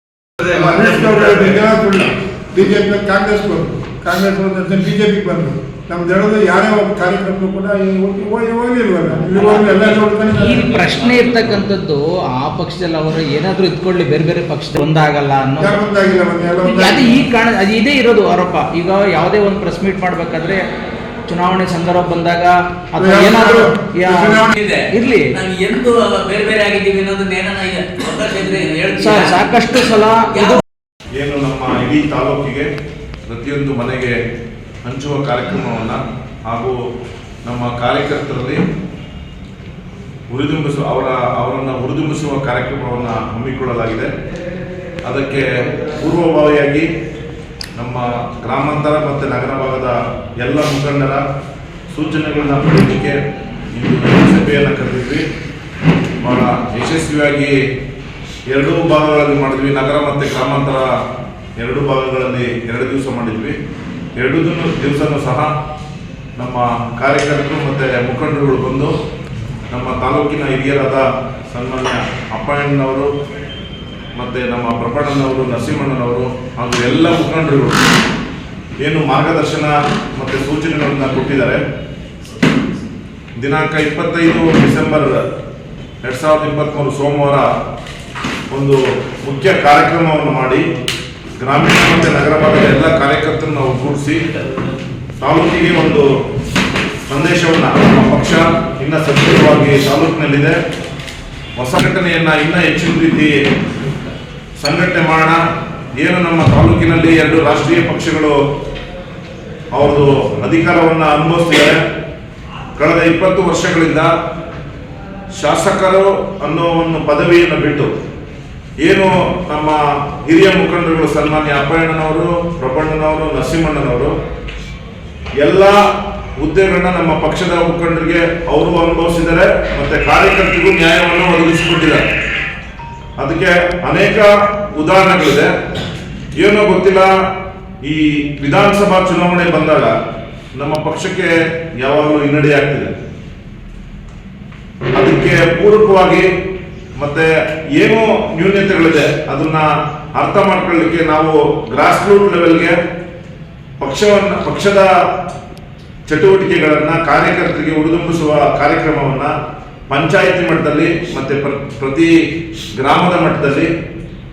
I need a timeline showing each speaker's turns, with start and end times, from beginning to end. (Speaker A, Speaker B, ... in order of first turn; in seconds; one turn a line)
Speaker A: 0.4-10.8
Speaker B: 9.3-15.8
Speaker A: 15.6-17.2
Speaker B: 16.6-20.6
Speaker B: 21.3-25.4
Speaker A: 23.0-24.6
Speaker C: 24.5-29.4
Speaker B: 29.0-30.6
Speaker C: 30.4-30.6
Speaker D: 31.2-32.7
Speaker D: 33.3-34.1
Speaker D: 34.9-36.8
Speaker D: 37.5-38.6
Speaker D: 40.3-44.1
Speaker D: 45.0-46.9
Speaker D: 47.8-51.2
Speaker D: 51.9-53.2
Speaker D: 53.8-55.3
Speaker D: 56.2-57.5
Speaker D: 58.5-60.9
Speaker D: 61.6-63.6
Speaker D: 64.2-65.5
Speaker D: 66.4-69.0
Speaker D: 69.7-73.1
Speaker D: 74.2-77.9
Speaker D: 78.8-81.6
Speaker D: 83.4-85.2
Speaker D: 86.0-87.5
Speaker D: 88.5-90.6
Speaker D: 91.4-94.2
Speaker D: 95.2-96.1
Speaker D: 97.1-100.6
Speaker D: 101.6-103.3
Speaker D: 104.6-105.4
Speaker D: 106.0-108.4
Speaker D: 109.7-111.8
Speaker D: 112.8-114.1
Speaker D: 115.4-117.9
Speaker D: 118.8-124.1
Speaker D: 125.4-125.8
Speaker D: 126.4-132.0
Speaker D: 133.2-135.5
Speaker D: 136.4-137.1
Speaker D: 137.8-139.9
Speaker D: 140.6-142.9
Speaker D: 144.9-146.3
Speaker D: 147.0-152.8
Speaker D: 153.8-154.9
Speaker D: 156.1-159.3
Speaker D: 159.9-162.1
Speaker D: 162.8-163.7